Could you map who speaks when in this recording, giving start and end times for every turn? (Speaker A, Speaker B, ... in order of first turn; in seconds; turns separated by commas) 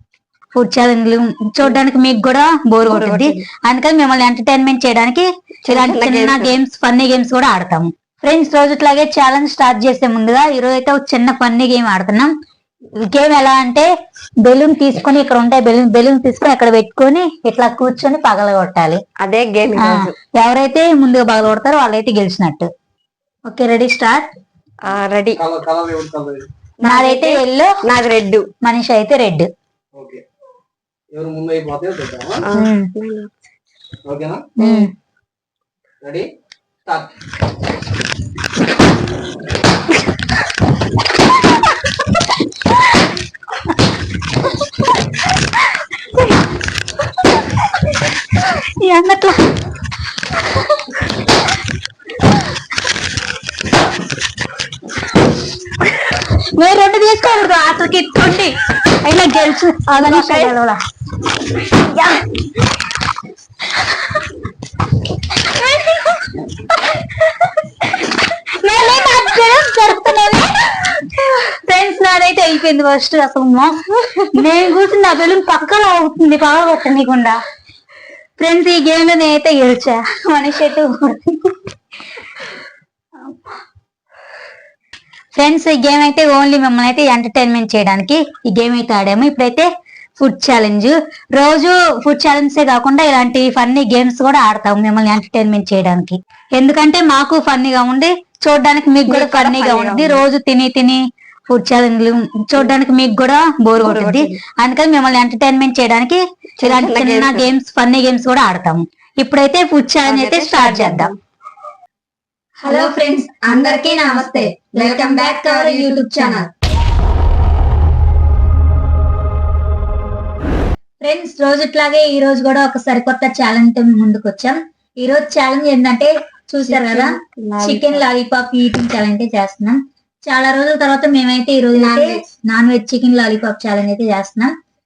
Speaker A: 0.5-12.3, Speaker B: 2.9-3.4, Speaker B: 5.7-6.5, Speaker A: 13.0-13.9, Speaker A: 14.4-19.0, Speaker B: 19.2-20.1, Speaker A: 19.8-22.7, Speaker A: 23.5-24.3, Speaker B: 24.8-25.4, Speaker C: 25.4-26.5, Speaker B: 26.8-28.5, Speaker A: 26.8-27.7, Speaker A: 28.6-29.5, Speaker C: 30.0-30.2, Speaker C: 31.1-32.5, Speaker B: 32.4-33.3, Speaker A: 32.5-32.9, Speaker C: 34.0-34.5, Speaker B: 34.6-34.9, Speaker A: 34.6-34.9, Speaker C: 36.0-36.3, Speaker C: 36.9-37.1, Speaker A: 48.5-49.5, Speaker A: 56.4-60.8, Speaker B: 59.9-60.5, Speaker A: 61.8-62.3, Speaker A: 65.4-66.3, Speaker A: 68.2-77.4, Speaker A: 78.4-81.5, Speaker A: 83.2-83.5, Speaker A: 85.3-111.1, Speaker B: 99.1-100.2, Speaker B: 103.8-104.4, Speaker B: 106.6-107.5, Speaker B: 110.1-111.2, Speaker A: 112.6-116.5, Speaker B: 112.7-116.5, Speaker A: 121.0-134.5, Speaker B: 126.7-128.1, Speaker B: 131.8-132.3